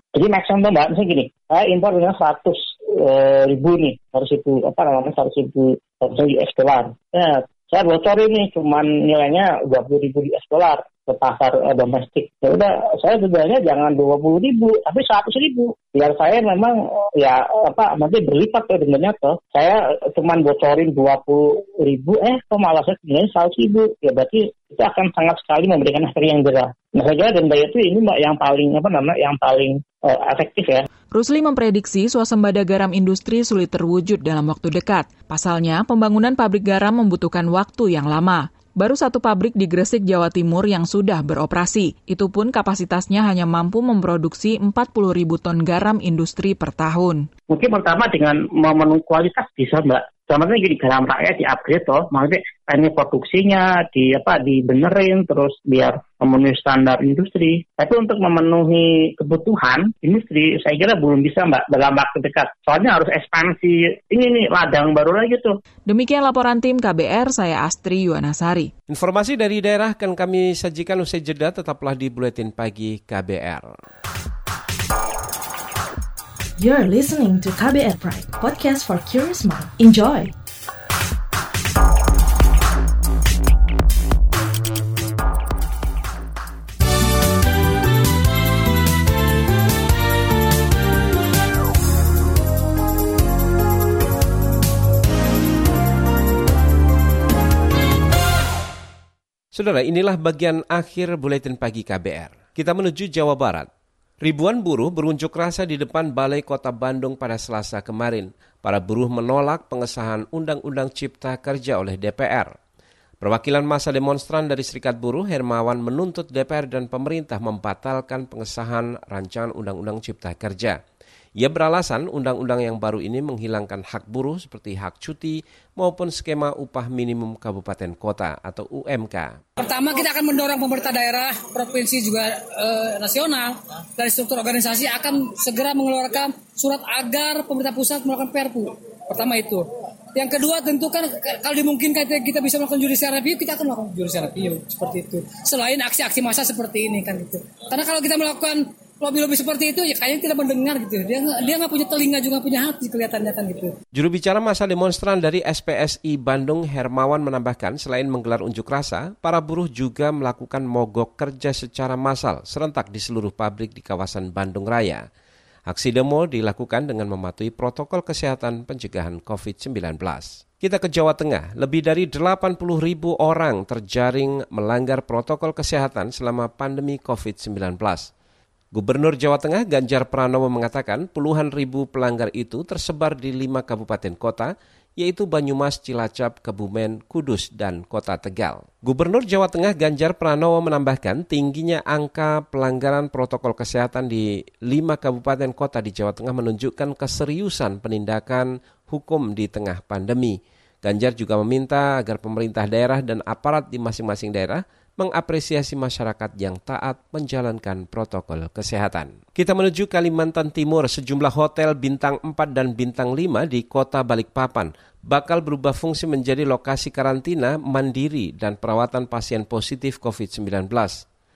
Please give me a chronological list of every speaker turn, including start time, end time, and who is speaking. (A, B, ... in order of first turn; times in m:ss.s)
0:00.1-0:30.8 A
0:31.1-0:47.3 B
0:47.5-1:05.5 A
1:05.9-1:08.7 B
1:08.9-1:13.7 C
1:16.6-1:20.3 D
1:39.5-1:43.7 C
1:44.2-1:52.5 C
1:53.2-2:00.8 C
2:01.4-2:09.4 C
2:09.6-2:33.7 E
2:33.9-2:45.0 C
2:45.7-2:58.1 C
2:58.7-3:41.0 C